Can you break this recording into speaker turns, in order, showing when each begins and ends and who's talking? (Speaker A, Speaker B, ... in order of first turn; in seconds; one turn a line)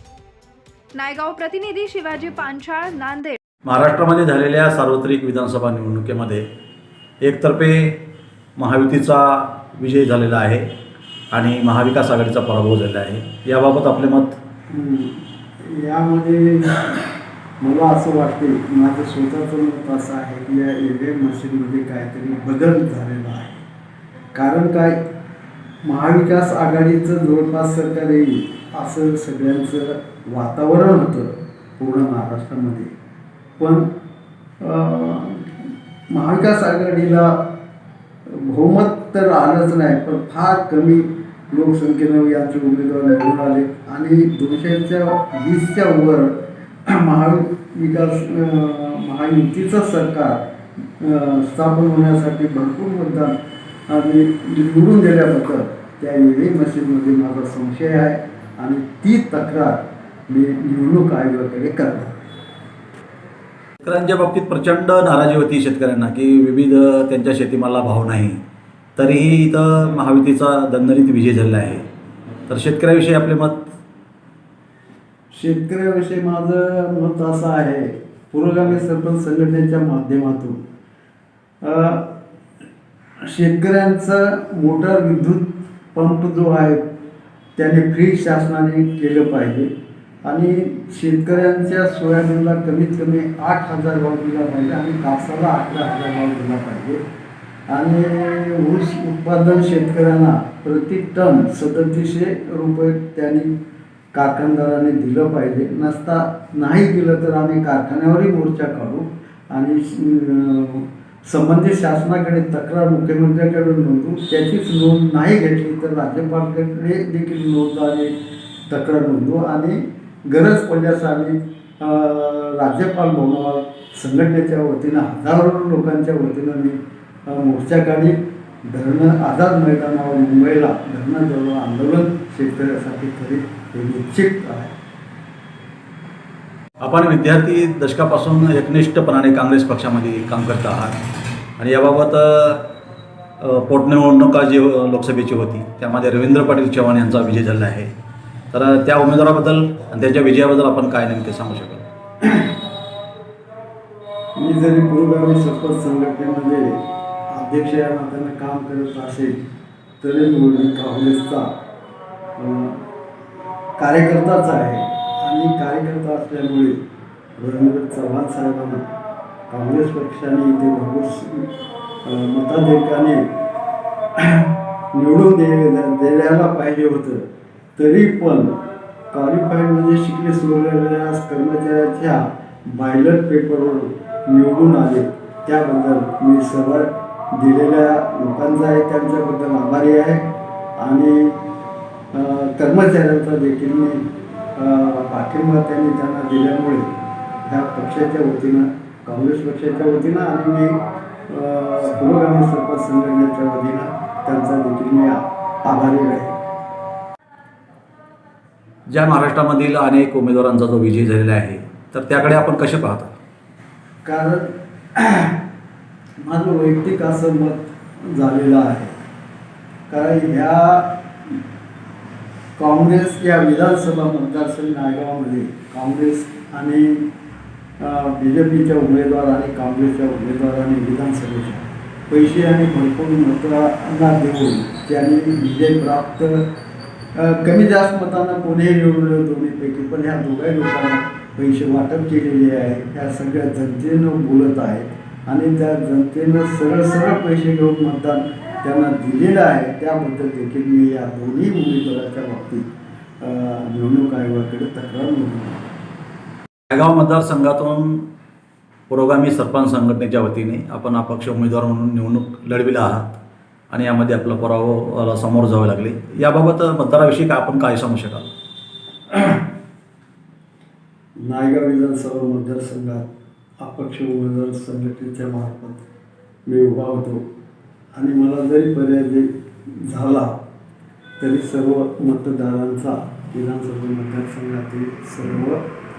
Speaker A: 0.9-3.4
Speaker B: 3.7-6.5
Speaker B: 7.2-8.0
Speaker B: 8.6-10.7
Speaker B: 11.3-14.4
Speaker C: 14.7-17.0
Speaker C: 17.6-23.6
Speaker C: 24.3-25.0
Speaker C: 25.9-32.9
Speaker C: 33.6-33.9
Speaker C: 34.6-37.5
Speaker C: 38.3-46.4
Speaker C: 46.9-50.4
Speaker C: 51.0-53.3
Speaker C: 53.9-62.2
Speaker B: 63.8-68.4
Speaker B: 69.0-71.8
Speaker B: 72.5-73.7
Speaker C: 75.3-80.6
Speaker C: 81.6-82.1
Speaker C: 83.2-86.8
Speaker C: 87.6-89.7
Speaker C: 90.2-97.0
Speaker C: 97.7-103.5
Speaker C: 104.1-118.2
Speaker C: 118.7-128.2
Speaker C: 128.7-134.7
Speaker B: 136.8-141.0
Speaker B: 141.6-142.7
Speaker B: 143.4-147.9
Speaker B: 148.5-151.8
Speaker C: 152.2-152.5
Speaker C: 154.4-156.8
Speaker C: 157.3-159.4
Speaker C: 160.0-161.5
Speaker C: 162.4-162.8
Speaker C: 163.8-166.8
Speaker C: 167.4-168.9
Speaker C: 169.5-171.5
Speaker C: 172.0-173.3
Speaker C: 174.2-177.2
Speaker C: 177.8-178.6
Speaker C: 179.1-191.4
Speaker C: 192.1-196.9
Speaker C: 197.4-200.8
Speaker C: 201.3-206.4
Speaker B: 208.9-213.1
Speaker C: 214.0-215.4
Speaker C: 216.2-218.9
Speaker C: 219.9-220.9
Speaker C: 222.6-227.1
Speaker C: 227.8-236.5
Speaker C: 237.2-252.7
Speaker C: 253.2-255.6
Speaker B: 256.7-258.1
Speaker B: 258.9-263.2
Speaker B: 263.7-268.3
Speaker C: 271.2-275.8
Speaker C: 276.5-277.2
Speaker C: 277.9-279.3
Speaker C: 279.8-280.4
Speaker C: 281.2-285.6